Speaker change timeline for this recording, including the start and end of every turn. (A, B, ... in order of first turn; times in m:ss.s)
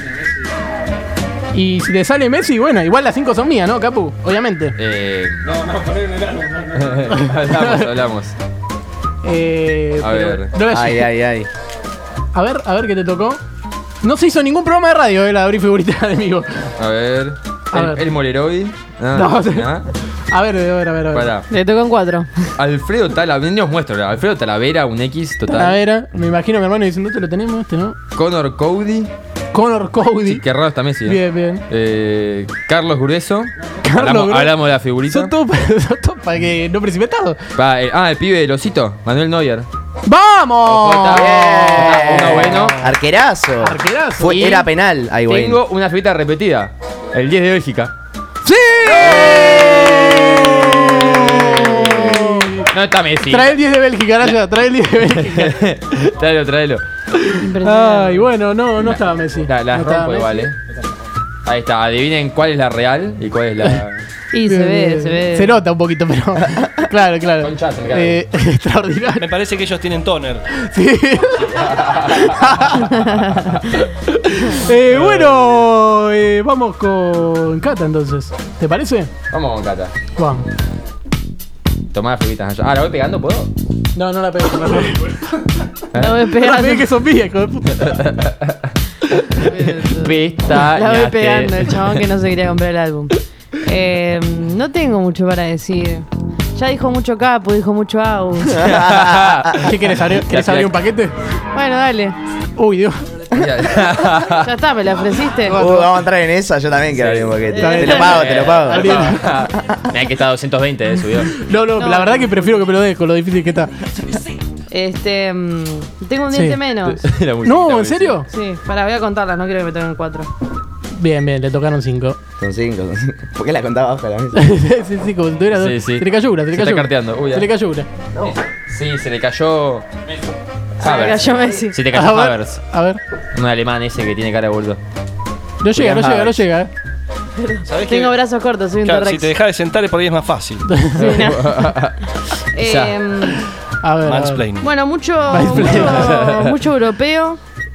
0:01.5-0:04.7 A
0:04.8-0:05.5 B
0:06.5-0:08.3 B
0:07.1-0:07.9 A
0:09.2-0:11.1 A
0:10.0-0:10.5 B
0:10.7-0:11.5 C
0:12.3-0:13.4 A
0:14.0-0:16.7 A
0:16.8-0:19.9 B
0:17.7-0:18.0 A
0:19.1-0:21.3 A
0:21.1-0:21.5 B
0:21.5-0:22.3 D
0:22.6-0:25.8 B
0:25.4-0:28.0 A
0:28.1-0:29.1 B
0:29.5-0:30.4 A
0:30.2-0:35.4 B
0:31.0-0:31.6 A
0:33.8-0:37.4 A
0:37.5-0:39.7 B
0:40.0-0:42.9 A
0:40.6-0:42.8 B
0:41.1-0:45.6 C
0:43.6-0:44.3 A
0:44.2-0:44.7 B
0:45.2-0:47.9 B
0:48.4-0:52.7 A
0:48.8-0:50.0 B
0:51.2-0:53.6 B
0:53.2-0:55.7 A
0:55.2-0:56.8 B
0:57.1-1:00.5 A
0:57.3-0:58.3 D
0:58.8-1:00.6 B
1:01.4-1:04.0 B
1:04.3-1:05.5 D
1:04.4-1:09.2 A
1:07.4-1:08.2 B
1:09.2-1:10.5 E
1:10.5-1:19.1 A
1:11.7-1:12.8 B
1:13.3-1:13.6 B
1:14.9-1:15.5 B
1:19.3-1:19.9 B
1:20.2-1:20.5 A
1:21.9-1:23.5 B
1:23.9-1:25.4 A
1:25.9-1:26.3 B
1:25.9-1:26.9 D
1:26.3-1:28.0 A
1:27.8-1:32.1 B
1:29.3-1:38.6 D
1:38.5-1:40.8 B
1:38.5-1:39.6 C
1:39.6-1:41.1 A
1:41.5-1:42.2 D
1:42.6-1:43.0 A
1:43.3-1:43.7 C
1:43.3-1:44.4 B
1:44.3-1:45.6 D
1:45.4-1:45.9 A
1:45.5-1:49.2 C
1:46.9-1:51.4 B
1:47.5-1:48.1 D
1:47.6-1:49.3 A
1:51.3-1:53.7 A
1:51.7-1:52.4 D
1:54.7-1:57.0 D
1:56.3-1:56.6 A
1:56.8-1:58.2 B
1:57.4-1:58.3 A
1:58.3-2:00.3 D
2:01.0-2:02.2 A
2:02.4-2:04.4 C
2:04.3-2:07.9 A
2:05.5-2:07.5 B
2:08.2-2:09.9 B
2:10.8-2:11.8 D
2:10.8-2:12.6 B
2:11.9-2:13.0 A
2:13.3-2:14.8 B
2:15.6-2:16.7 A
2:15.7-2:16.4 B
2:17.4-2:19.3 D
2:17.6-2:18.1 E
2:18.8-2:20.7 E
2:20.7-2:21.3 A
2:21.0-2:21.6 D
2:21.0-2:23.0 B
2:22.4-2:23.5 D
2:23.8-2:24.5 A
2:24.0-2:24.7 E
2:24.6-2:27.4 D
2:25.3-2:26.3 A
2:25.8-2:26.6 B